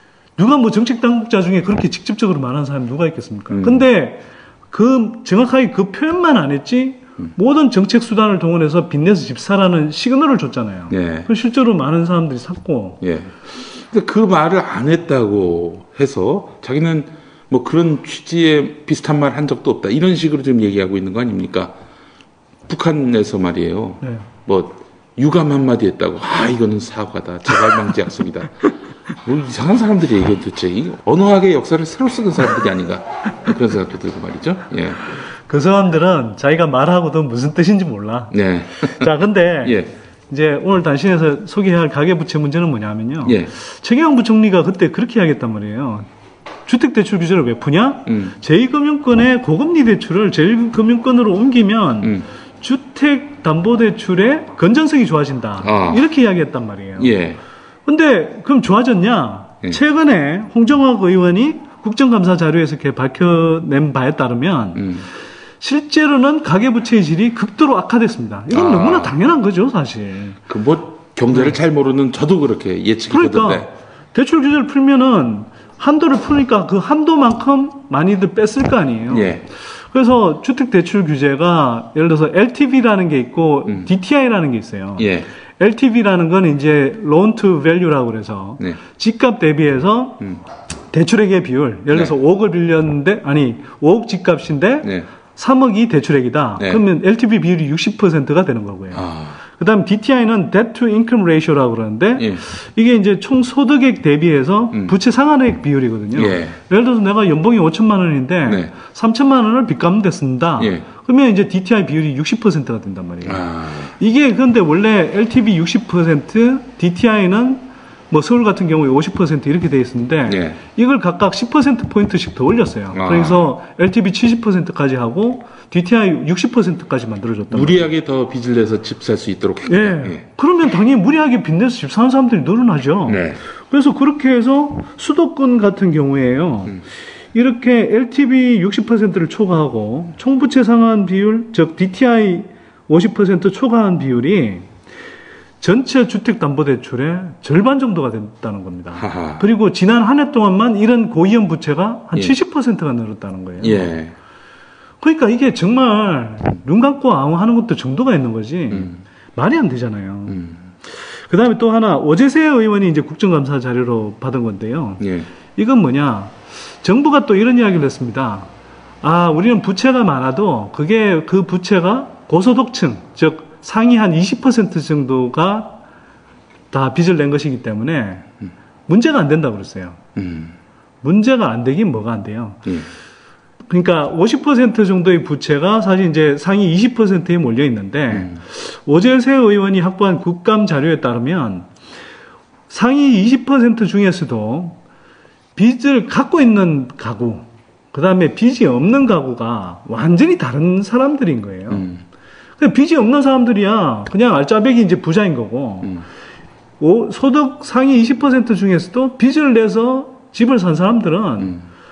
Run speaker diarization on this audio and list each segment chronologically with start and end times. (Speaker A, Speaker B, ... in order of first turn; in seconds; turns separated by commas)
Speaker A: 0.4-13.0, Speaker B: 3.5-3.8, Speaker B: 10.9-11.3, Speaker B: 13.0-21.8, Speaker B: 22.7-28.6, Speaker B: 29.2-35.0, Speaker A: 35.5-38.3, Speaker B: 38.3-39.1, Speaker A: 38.9-39.8, Speaker B: 39.6-39.9, Speaker A: 40.3-46.1, Speaker B: 43.2-43.5, Speaker A: 46.7-57.1, Speaker B: 48.1-48.4, Speaker B: 55.6-56.0, Speaker B: 57.0-57.4, Speaker A: 57.9-64.9, Speaker B: 64.8-65.1, Speaker A: 65.6-70.4, Speaker B: 68.5-69.2, Speaker B: 70.5-73.7, Speaker A: 71.3-71.6, Speaker A: 73.1-90.2, Speaker B: 79.1-79.4, Speaker B: 85.0-85.3, Speaker A: 90.9-127.9, Speaker B: 98.9-99.4, Speaker B: 102.2-102.4, Speaker B: 106.2-106.6, Speaker B: 110.6-110.8, Speaker B: 113.2-114.0, Speaker B: 120.3-120.6, Speaker B: 122.9-123.5, Speaker B: 127.5-130.2, Speaker A: 129.7-136.8, Speaker B: 133.1-133.4, Speaker A: 137.3-144.7, Speaker A: 145.6-153.9, Speaker B: 149.0-149.4, Speaker B: 153.6-154.2, Speaker A: 155.0-160.4, Speaker B: 158.7-159.0, Speaker B: 160.3-160.6, Speaker A: 160.9-165.0, Speaker B: 165.0-165.3, Speaker A: 165.6-168.5, Speaker A: 169.0-175.8, Speaker A: 176.7-178.3, Speaker A: 178.9-180.0, Speaker B: 180.2-180.6, Speaker A: 181.0-182.6, Speaker A: 183.7-191.7, Speaker B: 188.1-188.4, Speaker A: 192.7-194.8, Speaker A: 195.6-201.8, Speaker B: 201.7-202.0, Speaker A: 202.6-205.9, Speaker A: 206.8-211.5, Speaker B: 211.4-211.7